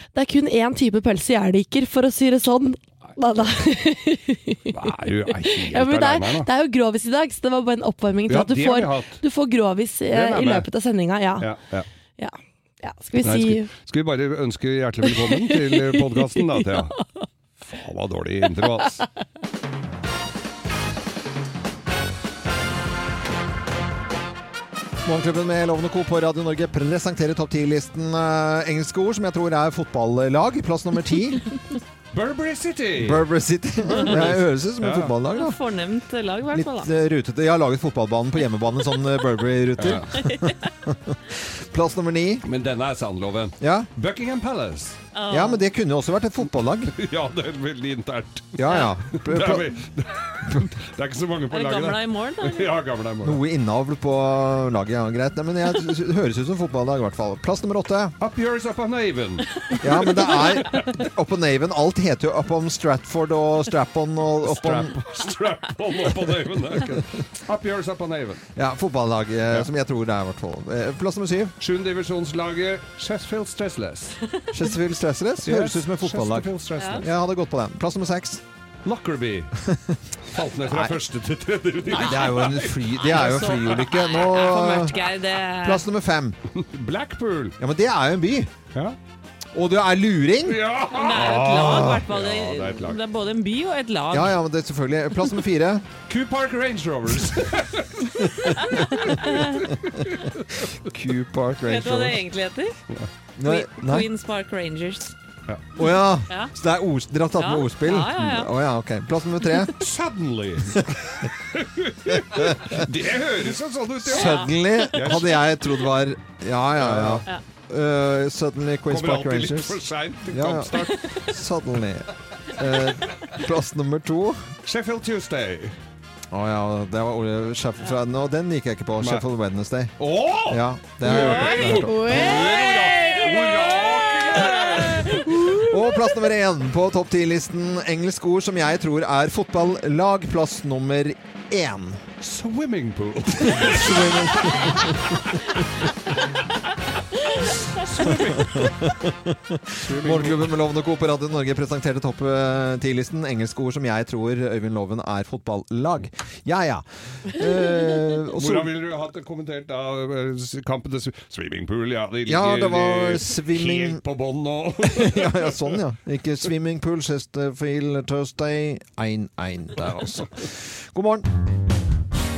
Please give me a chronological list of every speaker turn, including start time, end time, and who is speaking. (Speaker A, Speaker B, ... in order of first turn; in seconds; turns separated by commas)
Speaker A: 0.1-4.7, Speaker B: 4.7-6.5, Speaker A: 5.3-11.5, Speaker B: 8.3-9.2, Speaker B: 10.1-10.7, Speaker B: 11.4-11.9, Speaker A: 12.2-13.7, Speaker B: 13.2-16.9, Speaker A: 15.1-17.0, Speaker B: 17.6-19.0, Speaker C: 25.0-31.5, Speaker B: 32.1-33.3, Speaker C: 33.0-35.6, Speaker B: 33.9-35.1, Speaker D: 35.3-36.9, Speaker C: 36.5-42.5, Speaker B: 39.8-40.1, Speaker B: 42.4-45.0, Speaker C: 43.6-43.9, Speaker D: 45.1-45.6, Speaker C: 45.3-46.9, Speaker B: 46.9-53.4, Speaker C: 48.6-49.8, Speaker D: 51.5-52.7, Speaker C: 53.2-58.1, Speaker B: 58.2-60.7, Speaker C: 59.8-65.0, Speaker B: 64.5-68.4, Speaker C: 68.5-71.5, Speaker B: 71.6-74.2, Speaker C: 74.5-76.5, Speaker B: 75.4-77.1, Speaker D: 76.8-77.0, Speaker C: 77.0-78.4, Speaker B: 78.8-79.5, Speaker C: 79.6-80.0, Speaker B: 80.3-84.1, Speaker C: 80.7-80.9, Speaker C: 81.9-85.0, Speaker D: 81.9-82.3, Speaker D: 83.0-85.8, Speaker C: 85.6-86.3, Speaker B: 86.6-87.5, Speaker C: 87.6-88.5, Speaker C: 89.5-90.6, Speaker B: 90.5-93.0, Speaker D: 90.9-94.3, Speaker C: 91.3-92.0, Speaker C: 94.1-95.8, Speaker B: 96.1-98.1, Speaker C: 98.6-99.1, Speaker D: 98.6-99.7, Speaker C: 100.8-102.2, Speaker D: 101.7-102.7, Speaker C: 103.4-104.1, Speaker D: 103.4-105.1, Speaker C: 105.8-109.7, Speaker D: 105.8-106.5, Speaker D: 107.4-108.5, Speaker B: 109.8-114.4, Speaker C: 112.3-112.7, Speaker C: 114.0-124.5, Speaker D: 114.1-115.2, Speaker B: 114.9-115.3, Speaker B: 116.8-117.2, Speaker B: 118.9-121.2, Speaker B: 124.6-125.8, Speaker C: 126.3-132.1, Speaker B: 129.0-129.2, Speaker B: 130.0-135.2, Speaker A: 131.1-133.2, Speaker C: 135.4-142.0, Speaker B: 142.2-145.4, Speaker C: 143.4-144.9, Speaker B: 147.7-148.9, Speaker C: 148.1-158.7, Speaker B: 149.8-150.5, Speaker B: 158.3-165.8, Speaker C: 162.2-164.0, Speaker C: 164.8-171.3